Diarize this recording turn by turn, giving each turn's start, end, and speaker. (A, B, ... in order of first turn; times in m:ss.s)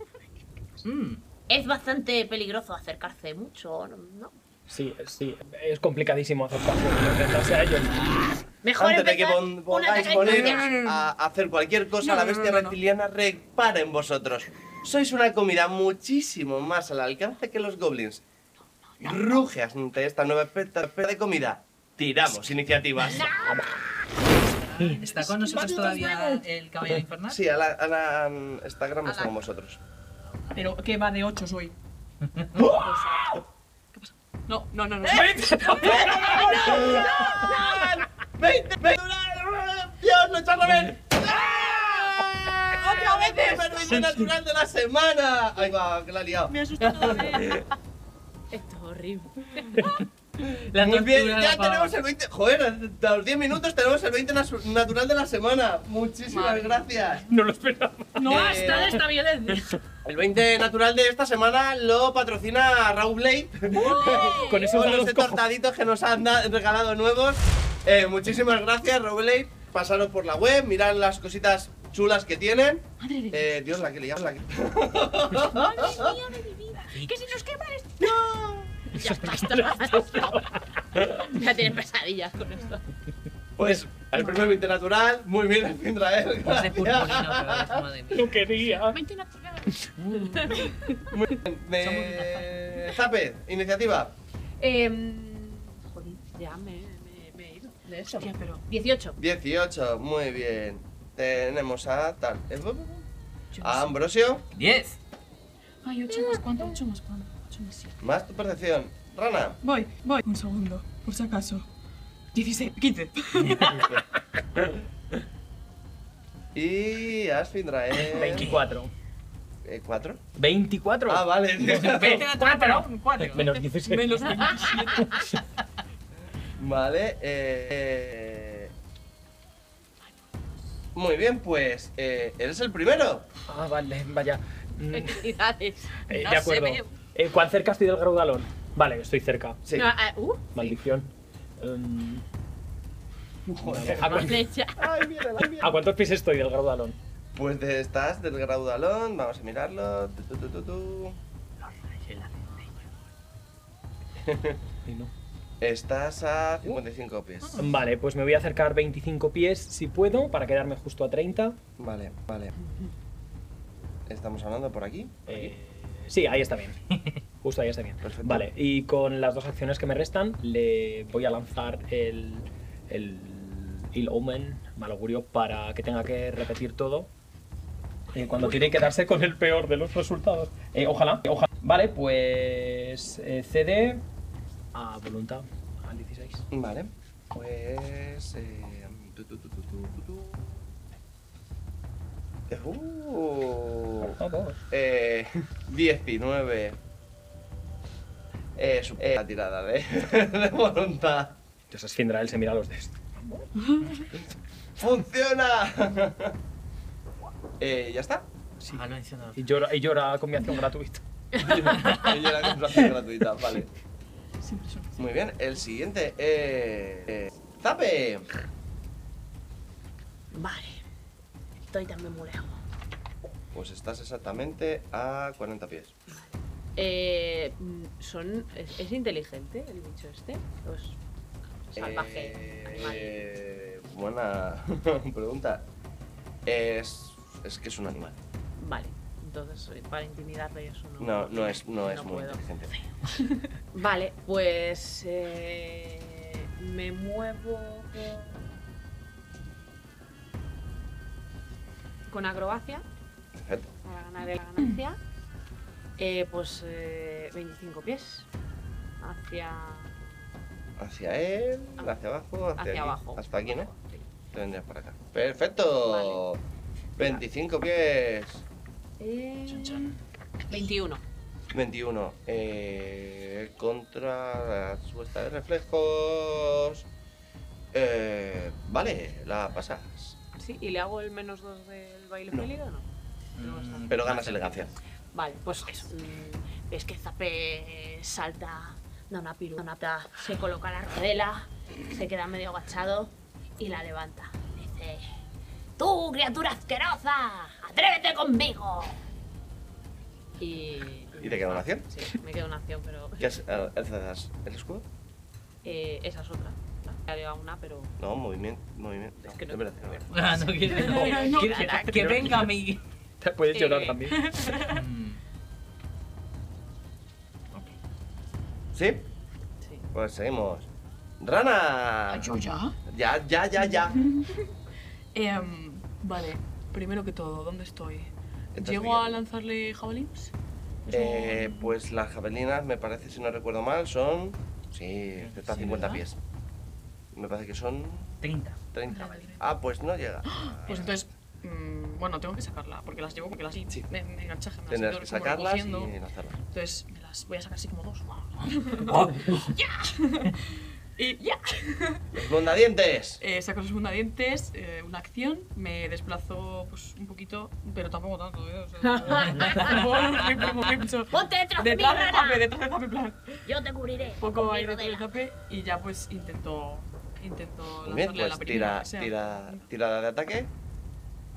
0:00.8-0:01.2 A
0:01.5-0:04.3 B
0:04.7-0:08.3 C
0:08.6-0:10.7 B
0:08.8-0:18.2 D
0:10.1-0:11.0 E
0:12.0-0:12.7 E
0:18.9-0:19.4 B
0:19.0-0:23.4 D
0:23.1-0:23.6 B
0:24.2-0:27.4 A
0:24.9-0:26.0 E
0:27.3-0:29.8 D
0:30.5-0:31.8 E
0:32.4-0:32.6 A
0:32.7-0:33.3 E
0:33.9-0:37.4 E
0:35.1-0:36.7 C
0:35.8-0:47.5 D
0:36.7-0:37.8 B
0:42.8-0:43.8 E
0:46.5-0:47.6 E
0:46.9-0:47.6 F
0:48.5-0:49.9 B
0:49.8-0:52.0 A
0:50.8-0:57.3 D
0:56.3-0:57.2 E
0:57.3-0:58.5 C
0:58.2-0:59.0 E
0:58.3-0:59.8 A
0:58.3-0:59.0 D
1:00.0-1:16.1 D
1:03.9-1:04.3 E
1:04.0-1:04.4 F
1:04.1-1:04.4 B
1:04.4-1:05.4 C
1:13.0-1:13.5 E
1:15.6-1:16.0 E
1:15.9-1:17.1 F
1:16.9-1:17.4 A
1:17.1-1:17.9 E
1:18.0-1:18.8 D
1:18.9-1:21.1 C
1:18.9-1:22.8 B
1:23.6-1:27.8 D
1:26.4-1:28.7 A
1:28.1-1:29.0 C
1:28.9-1:30.7 B
1:30.0-1:30.6 C
1:31.1-1:34.2 D
1:31.8-1:32.9 A
1:34.6-1:39.2 B
1:38.1-1:38.6 E
1:39.2-1:43.1 D
1:43.5-1:44.0 E
1:43.6-1:44.4 D
1:44.5-1:45.0 A
1:45.8-1:48.0 E
1:48.0-1:49.6 D
1:49.6-1:51.7 E
1:52.3-1:54.0 E
1:56.5-1:58.5 D
1:58.0-1:58.9 C
1:58.2-1:58.6 A
1:59.6-2:00.2 D
2:00.4-2:02.6 C
2:01.1-2:02.3 D
2:01.6-2:03.6 A
2:03.2-2:04.3 C
2:03.8-2:05.3 E
2:04.9-2:05.4 C
2:06.6-2:08.7 D
2:10.9-2:13.3 D
2:13.5-2:15.2 C
2:14.9-2:15.9 B
2:16.1-2:19.6 C
2:16.2-2:16.9 E
2:19.7-2:19.9 D
2:19.7-2:20.8 B
2:20.5-2:22.2 C
2:23.6-2:25.8 D
2:23.6-2:24.5 C
2:23.8-2:24.9 B
2:25.4-2:27.0 C
2:27.4-2:31.2 D
2:31.6-2:32.7 A
2:34.2-2:34.6 D
2:34.8-2:35.1 C
2:35.6-2:37.7 D
2:37.4-2:37.7 E
2:37.6-2:41.6 C
2:41.8-2:42.5 D
2:44.1-2:45.5 D
2:45.3-2:46.8 C
2:47.4-2:57.1 C
2:48.0-2:48.5 D
2:58.1-3:04.0 C
3:04.7-3:06.5 C
3:06.5-3:10.6 D
3:12.5-3:14.2 D
3:14.0-3:14.6 C
3:14.7-3:16.8 D
3:18.6-3:21.4 D
3:21.7-3:23.5 C
3:24.8-3:26.4 D
3:27.6-3:28.3 D
3:28.7-3:29.4 A
3:29.4-3:31.0 C
3:31.4-3:31.6 B
3:31.4-3:33.7 D
3:31.6-3:32.3 A
3:34.4-3:35.1 E
3:35.0-3:38.3 D
3:40.3-3:40.8 B
3:41.6-3:42.6 B
3:43.5-3:46.0 D
3:46.8-3:51.0 B
3:51.7-3:53.2 B
3:51.7-3:55.7 D
3:56.4-3:58.2 D
3:58.6-4:02.4 B
4:01.0-4:02.7 D
4:03.2-4:03.4 E
4:03.7-4:08.4 B
4:12.1-4:12.8 B
4:13.4-4:13.7 D
4:13.8-4:15.0 B
4:16.0-4:18.3 B
4:19.0-4:20.0 B
4:20.8-4:23.7 D
4:22.6-4:24.0 B
4:24.3-4:26.4 D
4:25.8-4:26.2 B
4:27.0-4:28.4 D
4:29.0-4:30.0 B
4:29.5-4:30.0 A
4:30.5-4:31.0 B
4:31.5-4:36.9 D
4:37.7-4:40.2 D
4:40.4-4:44.1 B
4:43.4-4:44.7 A
4:43.9-4:44.7 D
4:45.1-4:55.0 B
4:55.8-4:59.0 B
5:00.4-5:03.7 B
5:01.2-5:01.9 D
5:03.2-5:04.9 D
5:05.6-5:08.0 B
5:08.0-5:10.3 D
5:09.2-5:12.4 B
5:10.1-5:12.8 A
5:10.8-5:11.7 E
5:12.0-5:12.3 C
5:13.2-5:14.5 C
5:13.5-5:14.0 B
5:14.1-5:14.8 E
5:14.7-5:15.2 A
5:18.7-5:19.1 D
5:19.9-5:20.7 D
5:21.2-5:22.3 D
5:22.1-5:22.8 E
5:22.9-5:24.1 D
5:23.7-5:24.5 E
5:25.1-5:30.3 E
5:28.6-5:29.2 D
5:30.9-5:31.7 E
5:30.9-5:36.2 D
5:35.2-5:35.5 A
5:35.5-5:36.0 E
5:37.1-5:41.0 D
5:38.2-5:38.6 A
5:38.9-5:39.4 E
5:40.3-5:45.9 E
5:44.7-5:46.4 D
5:46.5-5:52.1 E
5:48.8-5:49.5 A
5:52.1-5:53.2 D
5:53.2-6:03.5 E
5:58.9-5:59.8 B
6:01.1-6:02.5 B
6:03.4-6:05.1 B
6:04.2-6:09.7 E
6:07.8-6:10.5 D